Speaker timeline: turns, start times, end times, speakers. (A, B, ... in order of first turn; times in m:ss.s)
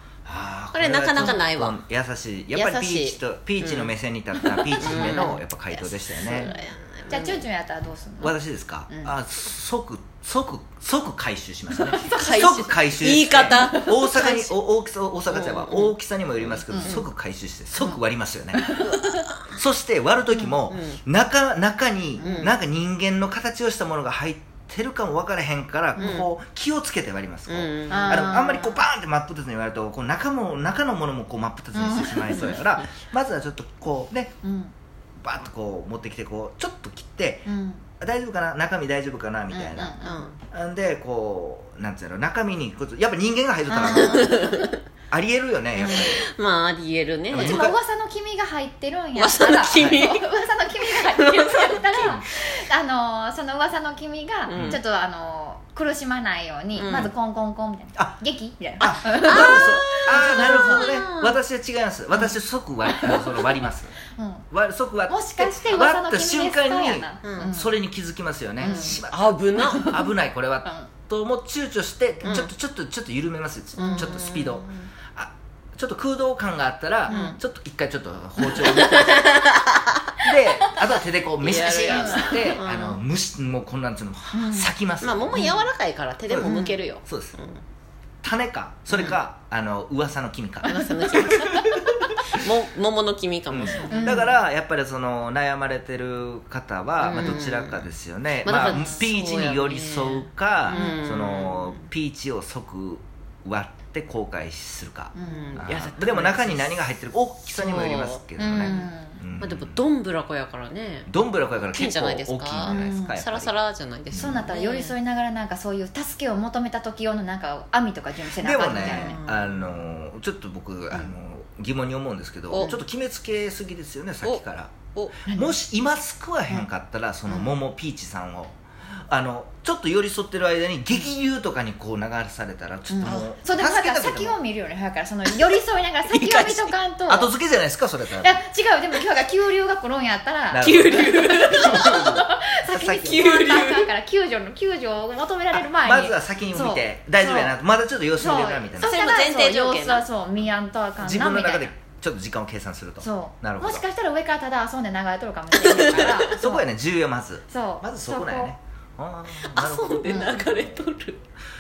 0:00.2-0:06.5 A
0:00.7-0:01.8 B
0:02.5-0:07.5 B
0:06.3-0:08.4 C
0:08.2-0:18.9 A
0:08.9-0:09.1 C
0:11.9-0:12.3 C
0:12.0-0:14.5 B
0:13.4-0:14.2 C
0:15.3-0:15.9 B
0:16.5-0:17.1 B
0:16.7-0:17.0 C
0:18.5-0:19.0 C
0:18.8-0:19.6 B
0:19.5-0:34.4 A
0:20.4-0:21.0 B
0:22.2-0:22.6 B
0:26.0-0:26.3 B
0:27.5-0:28.4 B
0:27.9-0:28.8 C
0:31.7-0:32.5 C
0:34.4-0:34.7 C
0:35.2-0:44.5 A
0:37.5-0:37.8 C
0:39.5-0:40.4 B
0:39.7-0:40.3 C
0:43.7-0:44.5 C
0:43.8-0:44.8 B
0:45.1-0:46.2 A
0:45.8-0:47.6 B
0:47.3-0:47.8 A
0:47.4-1:00.9 C
0:49.1-0:52.1 B
0:49.7-0:50.1 A
0:54.4-0:54.8 B
0:54.5-0:54.8 A
0:56.7-0:57.1 B
0:58.8-1:03.9 A
0:59.0-1:01.4 B
1:02.8-1:03.4 C
1:04.1-1:04.5 C
1:04.5-1:19.4 A
1:05.1-1:07.7 C
1:07.2-1:07.5 B
1:08.6-1:09.0 C
1:08.6-1:10.1 B
1:09.6-1:10.0 C
1:13.8-1:14.2 C
1:13.8-1:14.9 B
1:17.1-1:17.4 C
1:17.1-1:17.4 B
1:18.4-1:20.2 B
1:20.2-1:25.6 A
1:21.4-1:23.0 B
1:21.8-1:22.6 C
1:24.3-1:24.7 C
1:25.0-1:27.6 B
1:25.3-1:25.6 C
1:26.3-1:27.4 A
1:26.4-1:26.8 C
1:28.2-1:31.8 A
1:28.9-1:29.2 B
1:30.6-1:34.3 B
1:30.6-1:31.3 C
1:33.5-1:49.8 A
1:33.9-1:34.4 C
1:37.0-1:41.9 B
1:38.6-1:39.0 C
1:40.7-1:41.2 C
1:45.1-1:45.7 C
1:45.2-1:46.7 B
1:47.5-1:51.1 B
1:48.4-1:49.2 C
1:51.1-1:53.5 A
1:51.7-1:55.0 B
1:52.6-1:53.2 C
1:54.1-1:54.5 A
1:54.1-1:59.2 C
1:58.4-2:14.4 A
1:58.8-1:59.8 B
2:05.3-2:05.6 C
2:07.3-2:07.5 C
2:12.9-2:17.3 C
2:13.0-2:13.3 B
2:15.2-2:16.7 B
2:17.1-2:18.4 A
2:18.2-2:27.6 C
2:20.5-2:23.3 A
2:20.6-2:22.2 B
2:22.9-2:23.9 B
2:25.5-2:29.0 A
2:28.2-2:31.8 C
2:28.8-2:30.1 B
2:31.0-2:33.8 A
2:33.0-2:36.7 C
2:35.6-2:36.3 B
2:35.8-2:41.0 A
2:37.5-2:38.5 C
2:39.4-2:41.2 B